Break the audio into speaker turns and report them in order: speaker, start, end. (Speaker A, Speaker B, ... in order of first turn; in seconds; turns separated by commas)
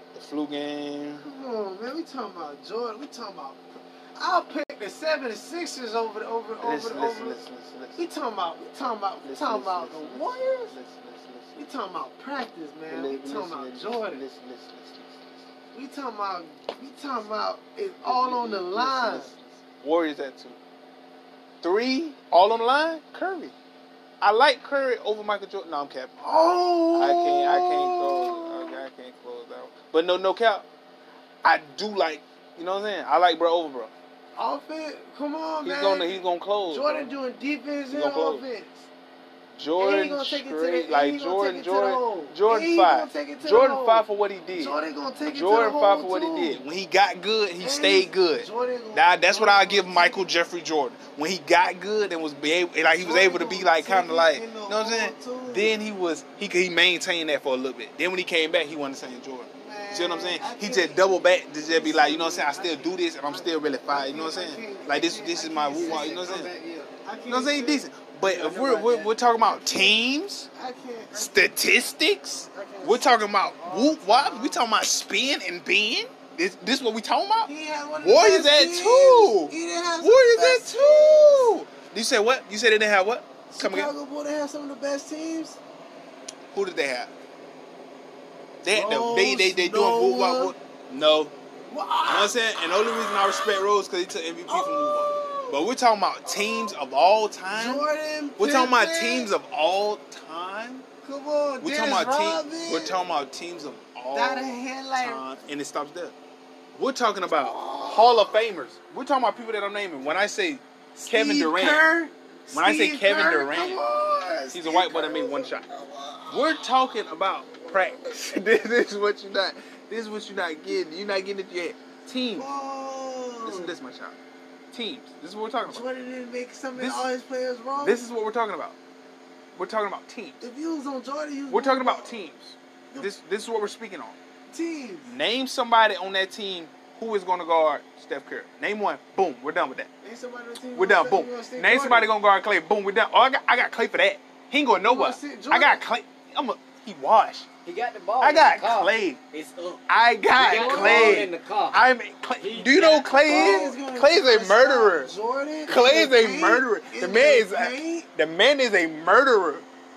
Speaker A: 0.1-1.2, Speaker B: 1.2-7.4, Speaker A: 6.6-8.1, Speaker B: 8.0-10.8, Speaker A: 9.2-11.7, Speaker B: 11.6-14.2, Speaker A: 12.9-15.4, Speaker B: 15.7-19.3, Speaker A: 18.0-20.6, Speaker A: 21.6-23.5, Speaker A: 24.2-26.2, Speaker B: 26.2-28.8, Speaker A: 26.9-30.7, Speaker A: 31.4-33.9, Speaker B: 34.4-38.9, Speaker A: 35.6-37.2, Speaker A: 37.9-38.4, Speaker A: 39.5-44.8, Speaker B: 39.8-46.6, Speaker A: 45.3-66.5, Speaker B: 47.6-50.3, Speaker B: 53.0-55.8, Speaker B: 59.6-61.1, Speaker B: 61.7-66.4, Speaker C: 65.8-66.9, Speaker B: 67.0-70.0, Speaker A: 67.3-70.5, Speaker B: 70.5-71.7, Speaker A: 71.1-83.9, Speaker B: 72.5-74.7, Speaker B: 77.4-81.5, Speaker B: 83.5-85.6, Speaker A: 86.5-87.1, Speaker A: 88.6-91.3, Speaker B: 88.7-90.5, Speaker B: 91.7-93.7, Speaker A: 92.1-100.8, Speaker B: 94.5-95.6, Speaker B: 96.2-96.8, Speaker B: 97.5-99.3, Speaker B: 101.0-103.0, Speaker A: 101.6-106.1, Speaker B: 104.1-105.2, Speaker A: 106.8-111.9, Speaker B: 107.3-108.4, Speaker B: 110.9-117.0, Speaker A: 112.5-113.8, Speaker A: 114.5-115.7, Speaker A: 116.3-122.5, Speaker B: 117.5-118.2, Speaker B: 122.3-123.8, Speaker A: 123.4-124.2, Speaker A: 124.7-125.8, Speaker B: 125.6-128.0, Speaker A: 126.8-127.1, Speaker A: 127.8-128.8, Speaker A: 129.6-130.4, Speaker B: 130.4-132.2, Speaker A: 131.5-134.2, Speaker B: 134.5-135.1, Speaker A: 135.1-139.9, Speaker B: 140.0-142.1, Speaker A: 140.8-147.5, Speaker B: 144.8-145.8, Speaker C: 147.6-149.8, Speaker A: 148.2-149.2, Speaker A: 149.9-155.1, Speaker C: 150.4-151.8, Speaker B: 150.4-151.3, Speaker C: 152.4-153.5, Speaker B: 153.2-158.1, Speaker A: 155.7-159.7